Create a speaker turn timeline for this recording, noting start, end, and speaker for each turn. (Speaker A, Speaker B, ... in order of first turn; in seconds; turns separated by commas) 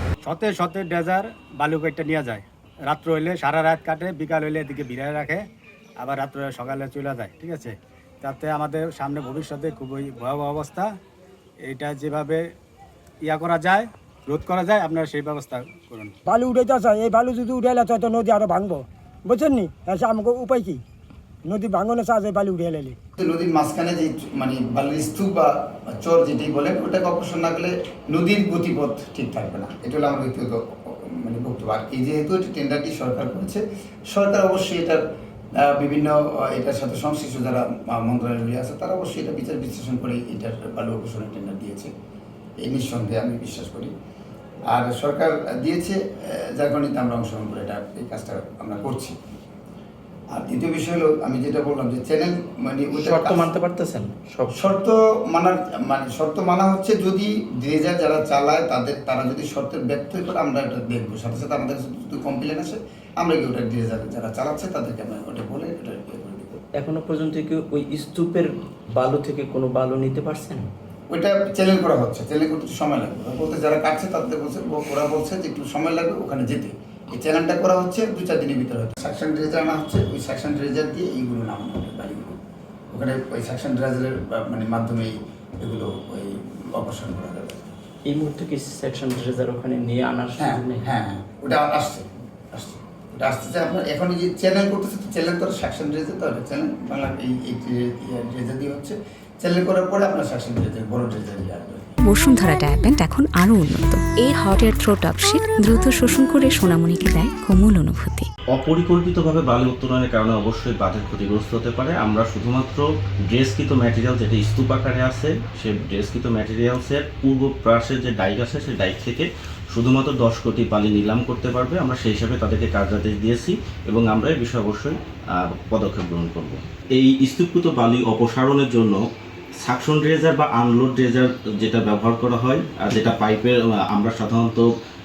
Speaker A: 0.2-5.5, Speaker A: 6.0-10.9, Speaker A: 11.7-12.5, Speaker A: 13.2-16.1, Speaker B: 16.3-20.8, Speaker B: 21.4-23.0, Speaker C: 23.2-35.0, Speaker C: 35.6-41.9, Speaker C: 42.6-43.9, Speaker C: 44.7-49.1, Speaker C: 50.3-53.5, Speaker D: 53.1-54.5, Speaker C: 54.5-66.6, Speaker D: 66.8-70.6, Speaker C: 71.1-82.4, Speaker C: 82.9-87.6, Speaker D: 88.1-90.8, Speaker C: 90.4-101.9, Speaker E: 102.0-108.3, Speaker F: 108.5-129.0, Speaker F: 129.6-134.7